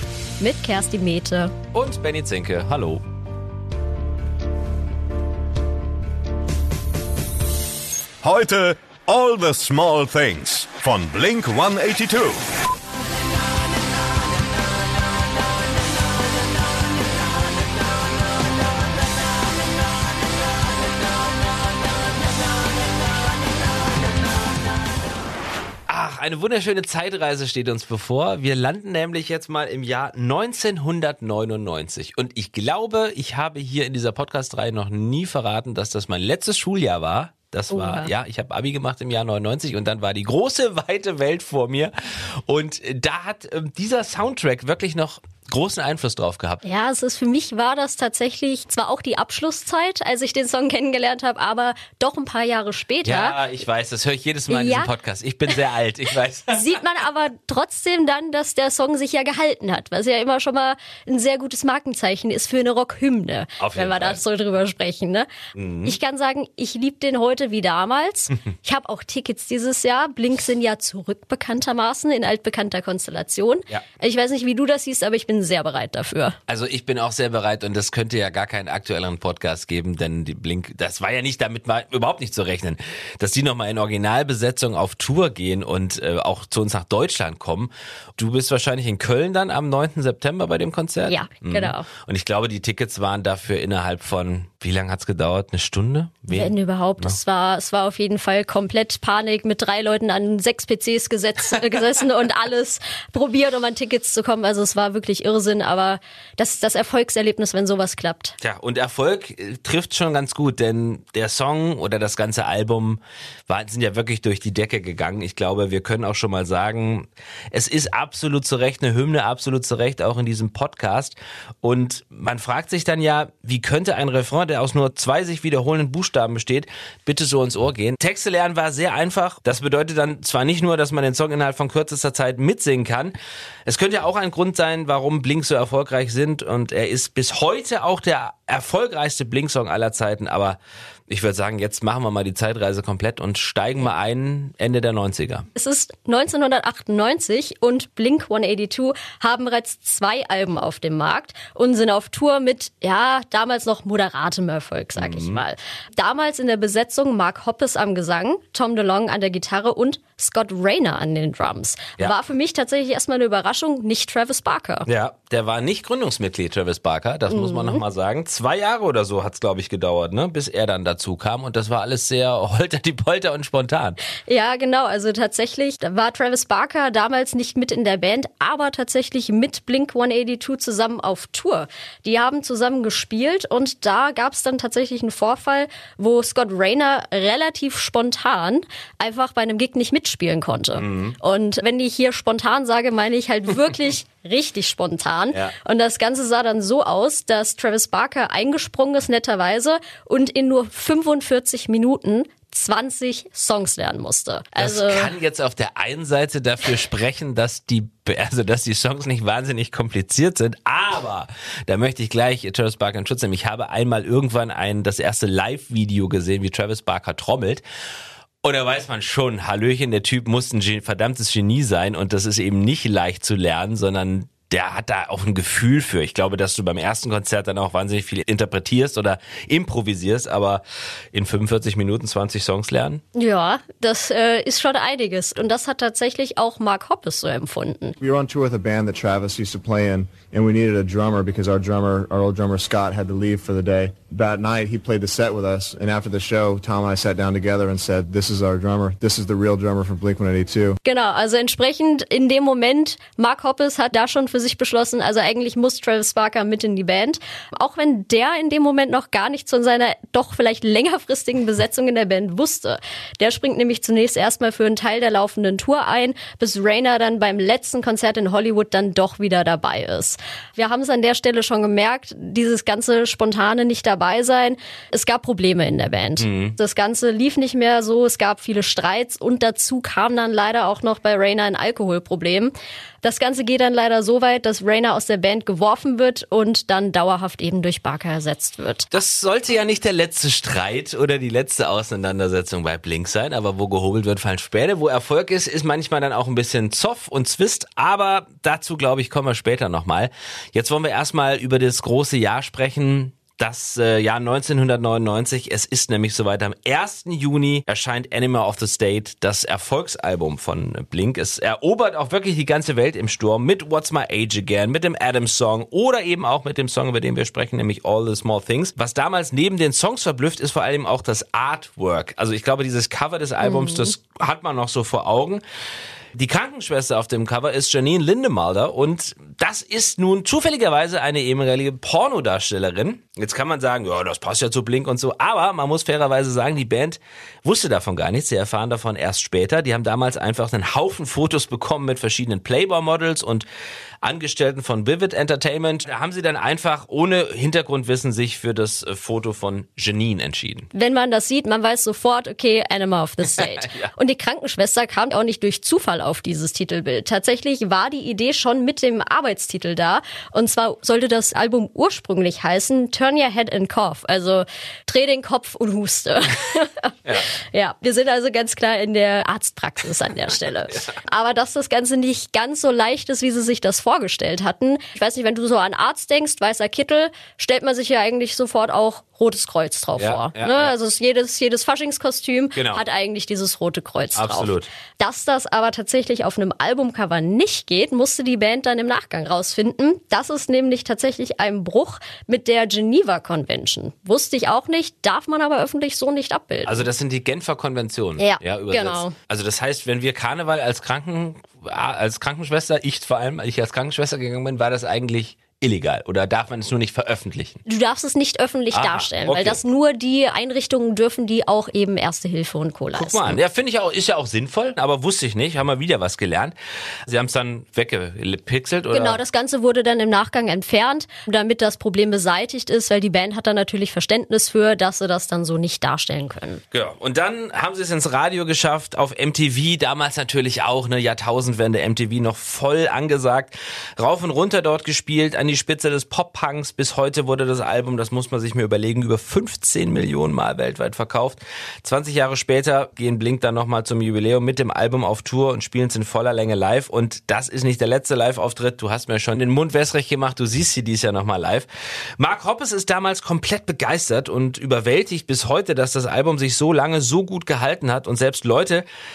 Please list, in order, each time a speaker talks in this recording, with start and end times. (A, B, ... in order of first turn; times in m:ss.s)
0:00.4-0:01.5 A
0:01.7-0:03.0 B
0:08.2-0:12.4 C
0:25.9-0:41.9 B
0:37.7-0:38.1 A
0:42.5-0:46.6 B
0:46.6-0:53.4 A
0:53.0-0:56.6 B
0:54.5-0:54.9 A
0:56.5-1:05.3 A
1:03.6-1:04.2 B
1:05.6-1:06.0 B
1:05.8-1:16.4 A
1:16.5-1:37.2 B
1:31.1-1:31.9 A
1:36.3-1:48.4 A
1:48.4-2:20.6 B
2:21.1-2:25.5 B
2:25.6-2:44.9 A
2:35.0-2:35.4 B
2:44.9-2:54.0 B
2:47.3-2:47.8 A
2:54.3-3:25.1 A
3:10.8-3:11.2 B
3:24.6-3:37.6 B
3:38.4-3:50.6 B
3:51.1-3:53.0 B
3:53.2-3:58.0 A
3:58.0-4:10.8 D
4:10.8-4:48.9 A
4:36.2-4:36.6 B
4:48.9-5:25.4 B
5:23.4-5:23.9 A
5:26.2-5:43.5 B
5:44.0-5:50.7 B
5:50.7-6:36.9 A
5:53.3-5:53.9 B
6:20.0-6:20.7 B
6:22.6-6:22.8 B
6:24.2-6:24.7 B
6:36.6-6:47.6 B
6:38.2-6:39.1 A
6:47.7-6:53.4 A
6:48.7-6:49.6 B
6:52.9-6:56.6 B
6:57.1-6:59.2 B
6:58.9-7:06.6 A
7:06.7-7:31.7 B
7:32.2-7:38.9 B